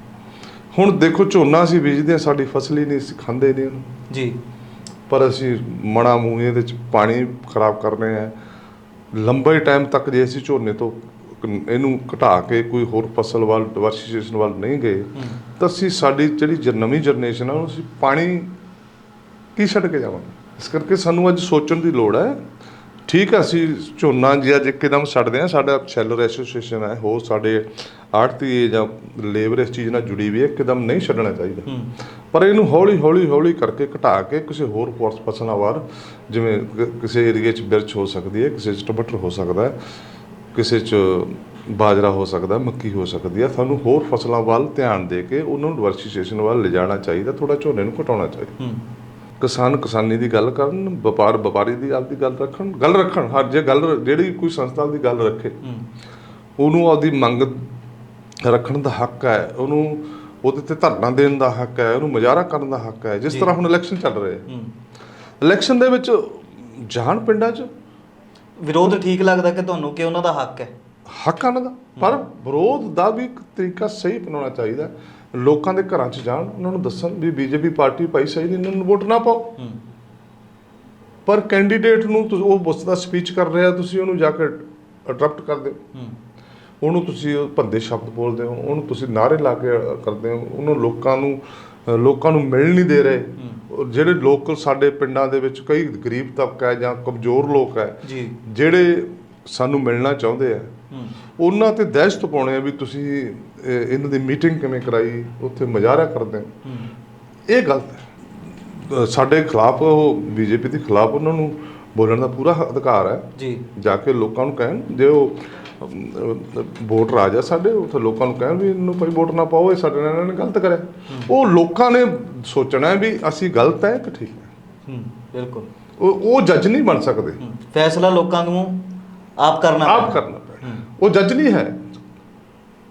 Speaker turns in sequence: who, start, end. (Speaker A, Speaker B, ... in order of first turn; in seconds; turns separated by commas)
Speaker A: 0.7-3.9, Speaker B: 4.1-4.4, Speaker A: 5.1-8.3, Speaker A: 9.1-18.5, Speaker A: 19.6-22.4, Speaker A: 23.1-31.7, Speaker A: 32.3-39.8, Speaker A: 40.5-48.6, Speaker B: 48.6-48.9, Speaker A: 49.4-55.6, Speaker A: 56.6-57.7, Speaker A: 58.4-64.5, Speaker B: 63.3-63.5, Speaker B: 64.5-64.7, Speaker A: 65.4-67.7, Speaker B: 68.6-70.7, Speaker A: 71.1-79.5, Speaker A: 81.3-85.8, Speaker A: 86.8-100.7, Speaker B: 93.4-93.6, Speaker B: 98.0-98.4, Speaker A: 101.4-106.6, Speaker B: 106.7-106.9, Speaker A: 107.5-108.1, Speaker A: 108.7-124.5, Speaker B: 113.4-113.7, Speaker B: 124.9-125.7, Speaker A: 126.0-127.4, Speaker B: 127.4-130.9, Speaker A: 129.8-131.8